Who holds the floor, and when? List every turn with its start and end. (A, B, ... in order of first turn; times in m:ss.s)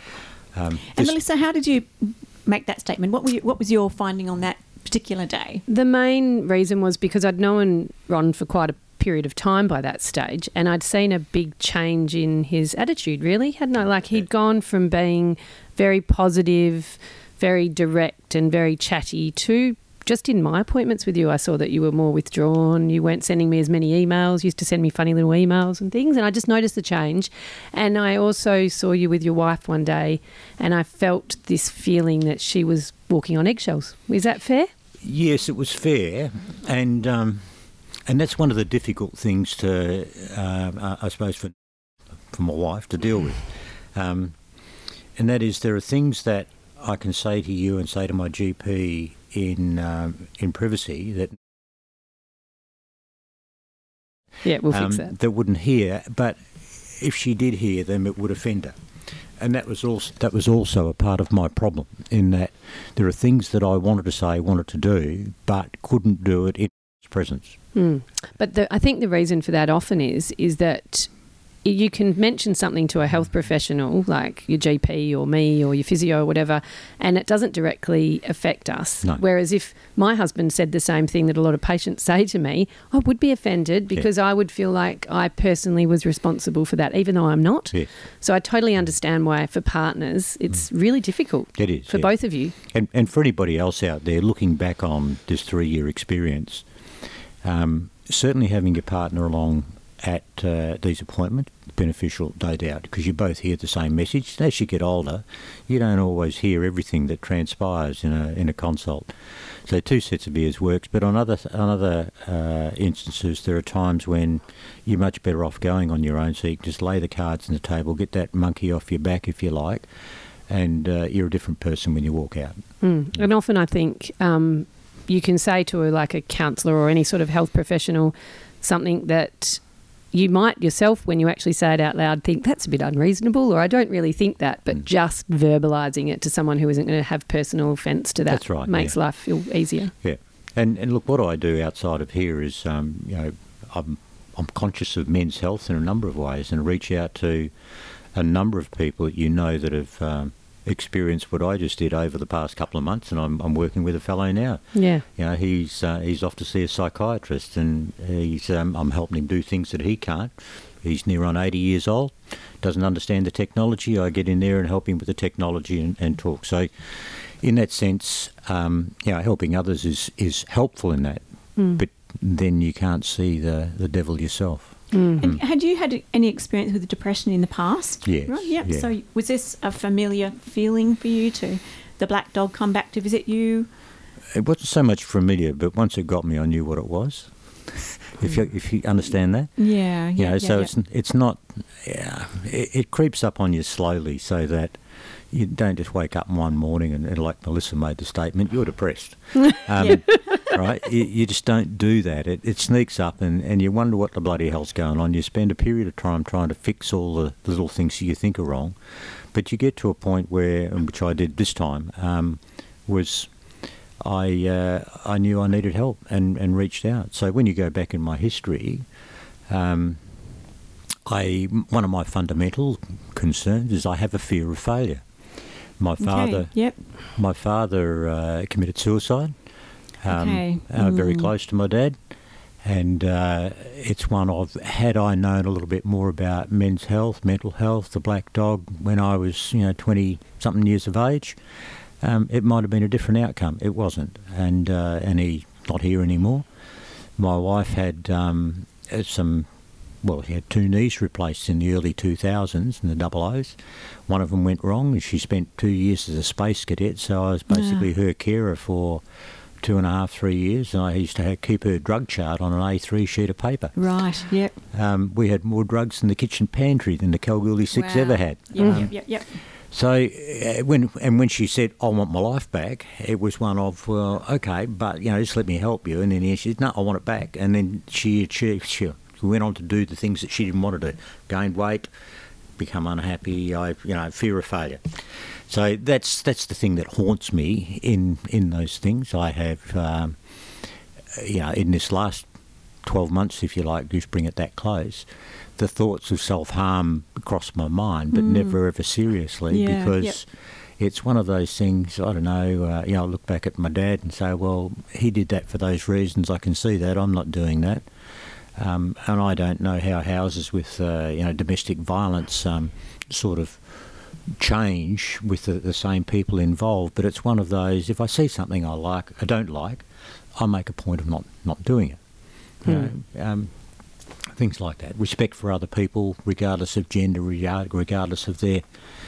0:00.5-0:01.2 A
0:00.9-0:05.6 B
0:05.7-0:34.7 C
0:35.0-0:37.5 A
0:38.0-0:41.5 A
0:42.3-0:44.4 A
0:45.2-0:51.4 A
0:54.4-0:55.1 C
0:54.7-0:58.8 A
0:59.4-1:07.6 A
1:07.7-1:32.5 C
1:31.5-1:36.6 A
1:37.4-1:59.9 A
2:00.5-2:03.2 A
2:02.8-2:19.9 C
2:18.3-2:18.9 A
2:20.0-2:51.2 A
2:34.7-2:35.0 C
2:51.7-2:55.4 A
2:54.9-2:55.2 C
2:55.2-3:03.7 B
2:58.0-2:58.9 A
3:04.3-3:33.3 A
3:09.6-3:10.7 B
3:19.8-3:20.4 B
3:34.0-3:38.8 A
3:39.5-3:40.0 A
3:41.0-3:45.0 A
3:45.8-3:49.3 A
3:46.0-3:46.8 B
3:50.0-3:52.0 A
3:50.1-3:51.3 B
3:52.6-4:01.4 A
4:02.0-4:06.4 A
4:07.2-4:09.5 A
4:10.0-4:13.6 A
4:14.1-4:19.0 A
4:17.5-4:17.9 B
4:19.6-4:23.8 A
4:23.7-4:24.6 B
4:24.7-4:29.1 A
4:27.7-4:29.4 B
4:28.6-4:28.9 C
4:29.7-4:41.9 A
4:42.6-4:52.3 A
4:52.8-4:55.0 A
4:55.6-5:00.3 A
4:58.1-4:58.6 B
4:59.5-5:00.2 B
5:00.8-5:07.8 A
5:08.5-5:22.0 A
5:22.6-5:23.5 A
5:22.6-5:22.9 C
5:24.2-5:28.6 A